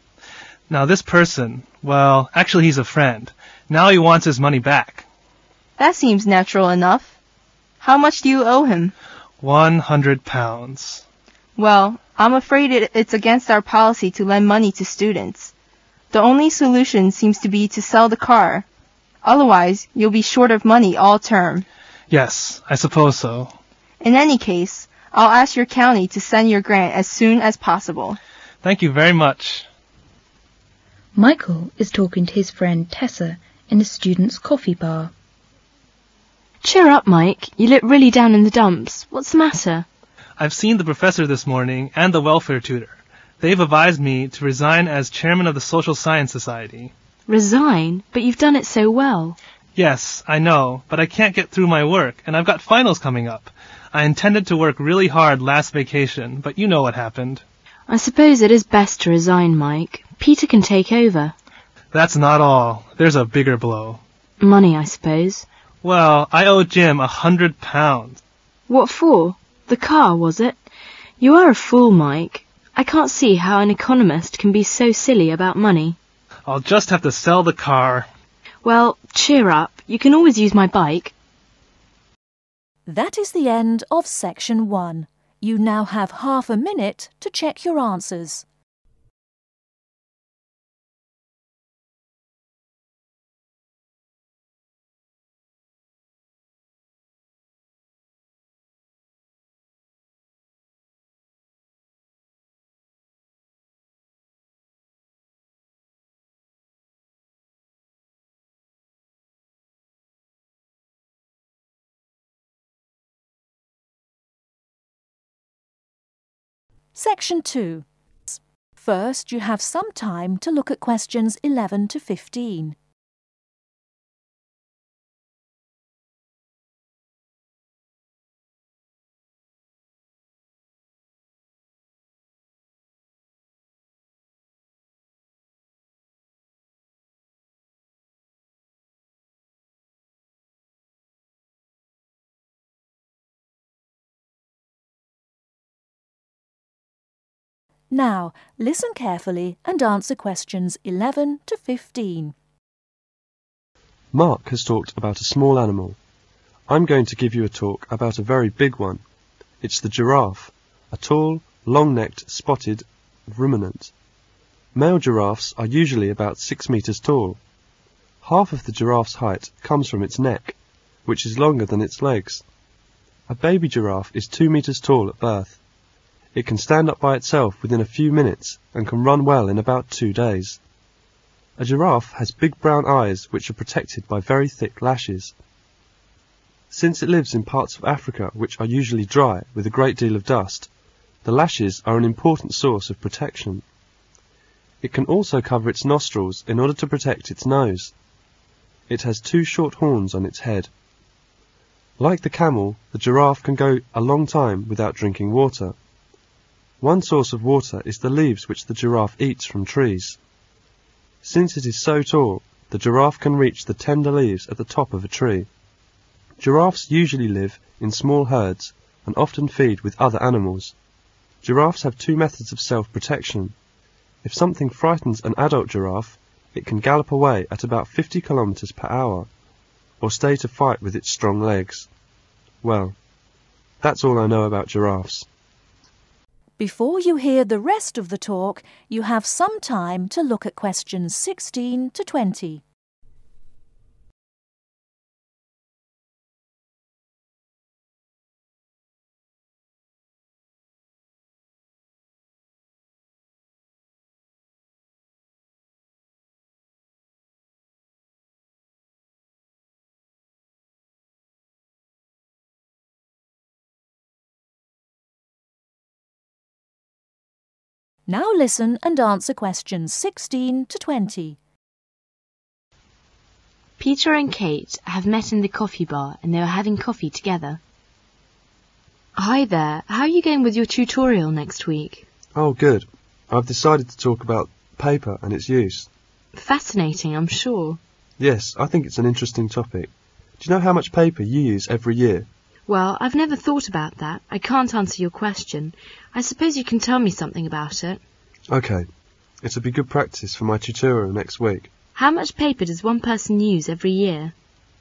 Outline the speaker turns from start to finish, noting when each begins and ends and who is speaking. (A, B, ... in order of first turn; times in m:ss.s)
0:00.7-0:05.0 A
0:05.8-0:07.1 B
0:07.8-0:08.9 B
0:09.4-0:11.0 A
0:11.6-0:15.5 B
0:16.1-0:18.6 B
0:19.2-0:21.6 B
0:22.1-0:23.5 A
0:24.0-0:28.2 B
0:28.6-0:29.7 A
0:31.1-0:35.1 C
0:36.6-0:39.8 D
0:40.4-0:46.9 A
0:47.3-0:49.4 D
0:49.8-0:57.4 A
0:57.9-1:01.3 D
1:01.9-1:04.0 A
1:04.4-1:05.4 D
1:05.8-1:08.2 A
1:08.7-1:10.6 D
1:11.2-1:16.0 D
1:16.4-1:18.1 A
1:18.6-1:21.1 D
1:22.8-1:28.4 E
1:56.9-2:02.8 E
2:27.9-2:32.3 E
2:34.1-2:36.0 F
2:36.7-2:39.0 F
2:39.6-2:43.9 F
2:44.7-2:47.4 F
2:48.2-2:52.4 F
2:53.3-2:55.6 F
2:56.3-3:00.6 F
3:01.6-3:05.3 F
3:06.7-3:10.7 F
3:11.2-3:13.6 F
3:14.8-3:17.9 F
3:18.9-3:20.7 F
3:22.0-3:25.7 F
3:26.8-3:30.2 F
3:31.2-3:35.5 F
3:36.4-3:40.7 F
3:41.4-3:43.5 F
3:44.2-3:49.3 F
3:50.0-3:51.9 F
3:52.6-3:53.0 F
3:53.8-3:55.2 F
3:56.6-4:02.6 E
4:28.1-4:31.4 E
4:33.8-4:37.6 D
4:39.2-4:42.0 D
4:42.4-4:45.9 F
4:46.3-4:47.8 D
4:48.2-4:52.3 F
4:52.7-4:58.0 D
4:58.5-4:58.9 F
4:59.4-5:01.7 F
5:01.9-5:04.3 D